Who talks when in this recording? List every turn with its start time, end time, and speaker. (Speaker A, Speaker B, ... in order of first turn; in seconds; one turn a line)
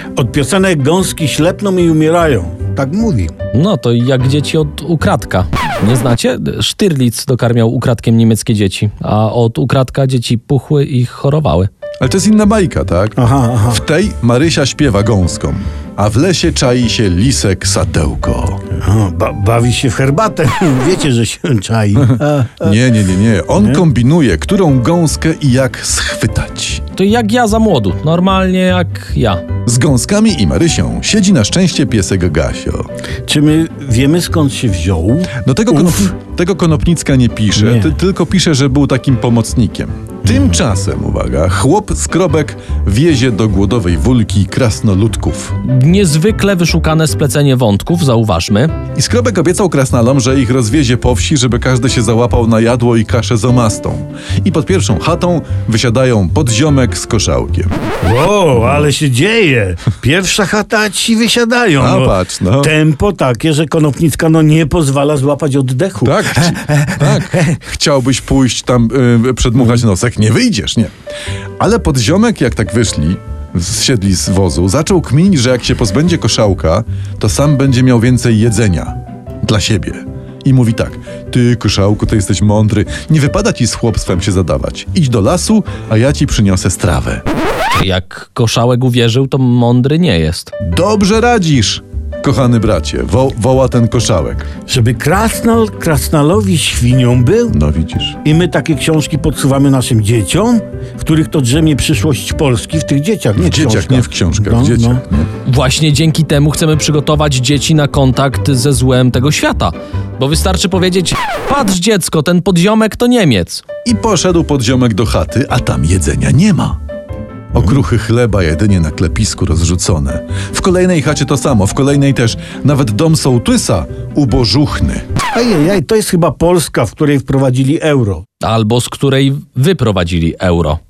Speaker A: 0.1-3.3
Speaker B: 3.5-11.7
Speaker C: 12.0-18.6
Speaker A: 13.2-13.8
Speaker A: 18.7-22.8
Speaker C: 22.0-26.8
Speaker A: 23.6-23.8
Speaker B: 27.0-29.4
Speaker C: 29.6-32.9
Speaker A: 33.3-36.1
Speaker C: 35.4-45.6
Speaker A: 37.5-37.9
Speaker B: 45.6-48.7
Speaker C: 49.0-57.7
Speaker A: 58.0-67.4
Speaker C: 61.8-62.7
Speaker C: 66.0-70.9
Speaker C: 71.6-87.2
Speaker B: 87.8-90.5
Speaker C: 90.6-94.5
Speaker A: 94.7-97.6
Speaker C: 97.5-98.2
Speaker A: 98.2-105.0
Speaker C: 103.3-105.3
Speaker B: 105.5-113.6
Speaker C: 113.8-116.8
Speaker C: 117.5-125.0
Speaker A: 125.3-128.2
Speaker B: 128.4-130.8